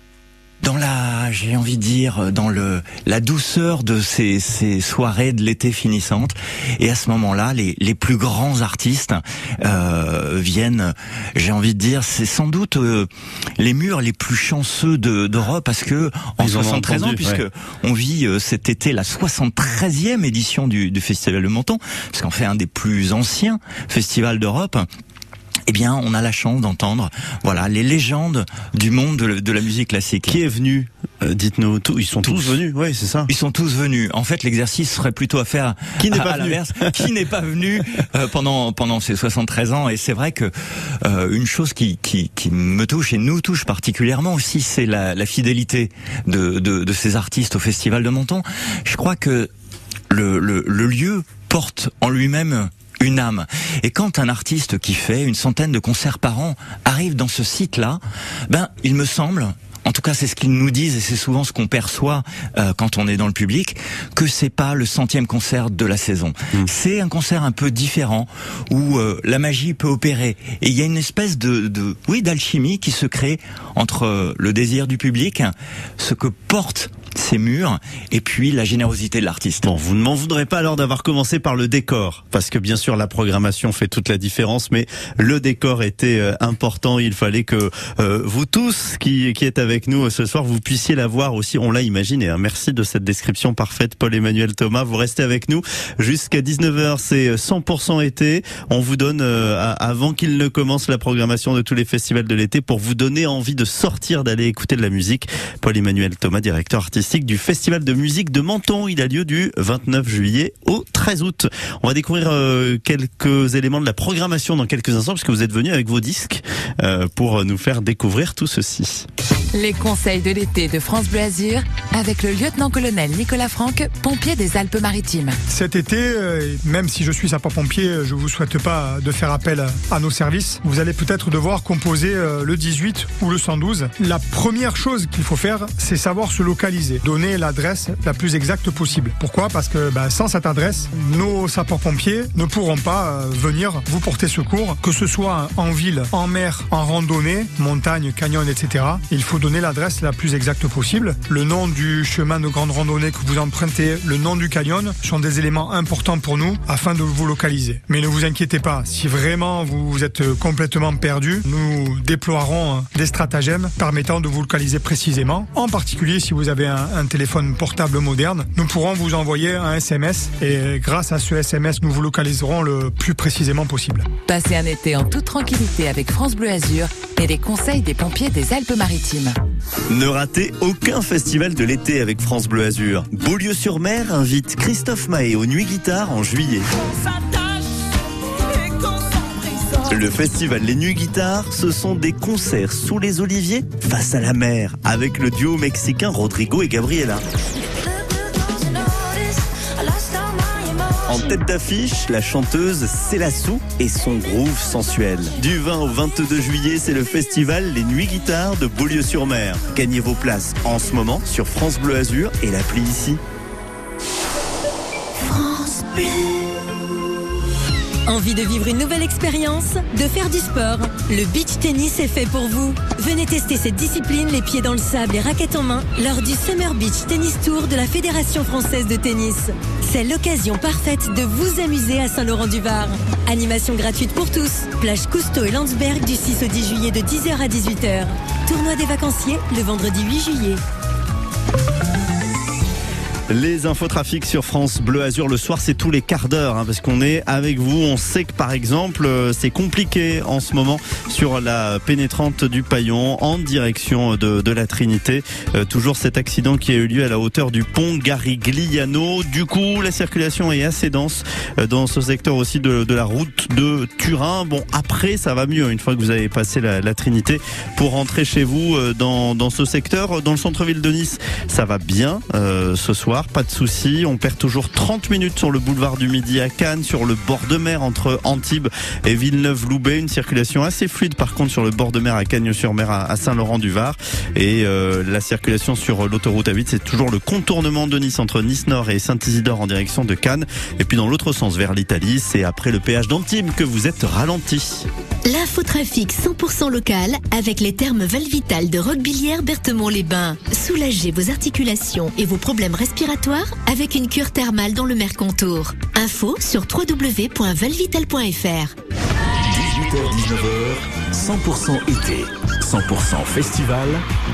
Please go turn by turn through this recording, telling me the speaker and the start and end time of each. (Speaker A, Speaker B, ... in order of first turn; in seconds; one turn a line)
Speaker A: 0.6-24.9
Speaker B: 16.4-17.4
Speaker A: 25.7-30.4
Speaker B: 30.2-33.3
Speaker A: 32.2-32.5
Speaker A: 33.3-49.5
Speaker B: 36.0-37.0
Speaker A: 50.1-79.7
Speaker B: 79.6-119.0
Speaker C: 119.5-125.4
Speaker D: 125.5-174.1
Speaker C: 174.3-179.3
Speaker B: 179.9-186.7
Speaker B: 189.9-197.2
Speaker B: 201.1-213.2
Speaker E: 215.1-216.8
Speaker F: 218.1-240.6
Speaker B: 243.3-294.9
Speaker E: 295.2-308.7
Speaker G: 309.4-314.0